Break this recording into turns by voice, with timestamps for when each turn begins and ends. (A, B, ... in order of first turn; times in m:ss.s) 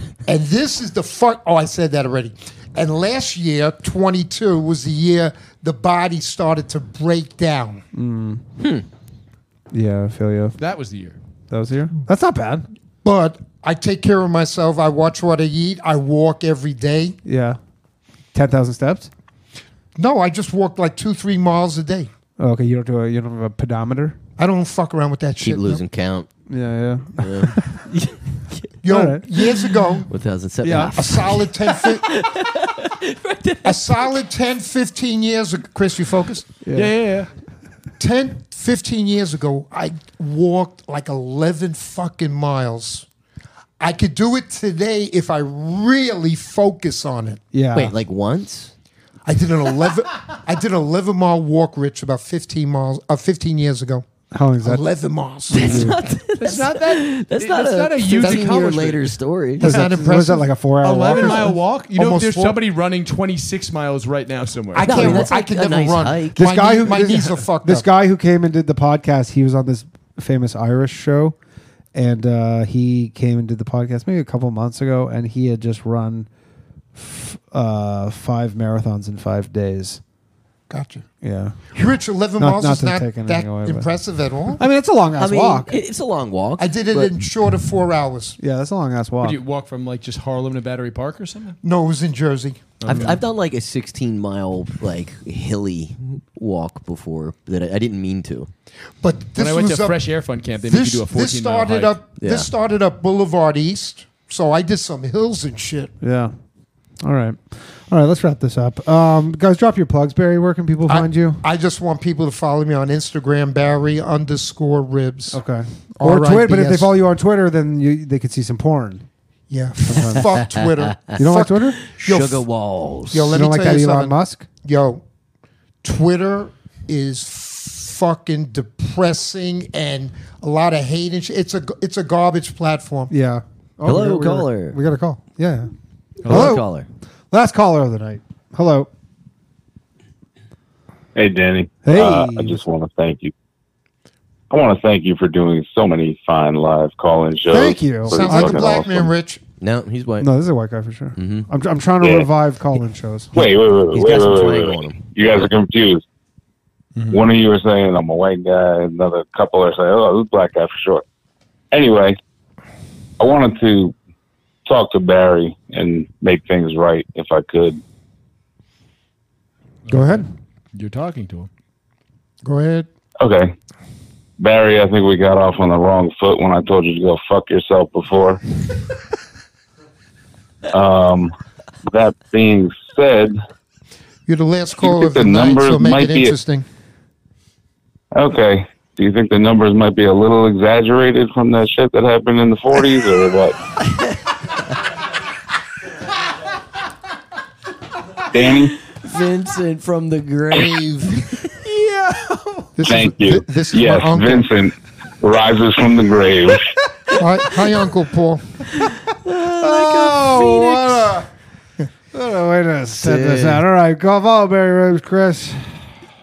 0:00.2-0:07.8 A
0:07.9-0:08.4 B
0:08.6-0:08.8 C
0:09.7-0:10.6 B
0:10.6-0:11.2 D
0:11.5-0:12.7 B
0:13.0-0:17.2 A
0:17.2-0:17.6 B
0:18.3-0:19.1 B
0:20.0-0:22.1 A
0:22.4-0:24.2 B
0:24.4-0:25.8 A
0:25.4-0:26.3 C
0:26.5-0:27.8 B
0:27.2-0:28.7 C
0:28.8-0:30.1 A
0:28.9-0:29.3 B
0:30.0-0:34.2 C
0:30.6-0:31.0 B
0:30.9-0:32.0 A
0:33.6-0:36.5 A
0:36.6-0:37.0 B
0:36.7-0:37.3 D
0:38.0-0:43.0 A
0:43.8-0:47.4 A
0:47.5-0:47.9 B
0:47.7-0:48.7 C
0:49.2-0:54.0 A
0:54.3-0:54.8 B
0:54.6-0:55.9 A
0:55.5-0:59.7 C
0:55.6-0:56.0 B
0:56.4-0:59.2 D
0:58.2-0:58.5 A
0:59.6-1:00.5 A
0:59.6-1:01.5 B
1:00.8-1:05.2 D
1:01.1-1:02.6 A
1:04.7-1:07.9 A
1:04.8-1:06.4 C
1:06.4-1:11.3 B
1:11.9-1:16.3 B
1:16.9-1:20.0 B
1:20.7-1:21.1 A
1:21.2-1:21.7 B
1:21.7-1:24.6 A
1:22.4-1:23.9 B
1:24.6-1:25.8 B
1:25.2-1:27.2 C
1:26.6-1:28.4 A
1:28.4-1:29.4 B
1:29.2-1:31.6 D
1:31.6-1:32.7 A
1:32.8-1:33.2 D
1:32.9-1:38.5 C
1:39.0-1:45.9 A
1:39.4-1:42.0 D
1:42.2-1:42.5 C
1:46.0-1:46.3 B
1:47.0-1:51.4 B
1:50.9-1:55.4 A
1:55.3-1:59.0 B
1:56.0-1:56.9 A
1:59.5-2:02.4 A
1:59.8-2:00.3 B
2:00.2-2:01.2 C
2:01.2-2:01.8 B
2:01.8-2:03.3 C
2:03.1-2:05.0 A
2:03.3-2:04.4 B
2:05.8-2:13.1 A
2:13.1-2:15.7 B
2:13.8-2:14.8 C
2:16.2-2:16.7 B
2:16.2-2:16.9 C
2:17.3-2:18.9 B
2:21.1-2:23.3 E
2:21.8-2:22.6 B
2:24.5-2:29.1 E
2:27.5-2:28.8 B
2:28.1-2:29.4 A
2:29.6-2:30.3 C
2:30.2-2:33.3 B
2:31.2-2:31.5 C
2:32.0-2:32.3 E
2:33.3-2:36.0 E
2:33.4-2:35.4 C
2:37.0-2:37.2 D
2:37.1-2:41.0 E
2:41.7-2:42.2 E
2:43.2-2:43.9 E
2:44.6-2:47.8 E
2:49.9-2:51.5 D
2:49.9-2:50.3 B
2:52.4-2:52.9 A
2:53.2-2:53.5 E
2:54.4-2:58.4 E
3:00.7-3:01.3 E
3:01.8-3:03.4 E
3:04.3-3:06.6 A
3:04.8-3:06.4 E
3:08.1-3:13.6 E
3:13.8-3:14.6 C
3:18.3-3:18.8 E
3:18.9-3:21.3 C
3:20.5-3:21.1 A
3:21.6-3:22.8 B
3:22.8-3:24.5 A
3:22.8-3:26.6 E
3:27.2-3:28.4 A
3:28.8-3:31.2 C
3:29.5-3:31.3 B
3:32.1-3:35.9 B
3:33.0-3:33.6 C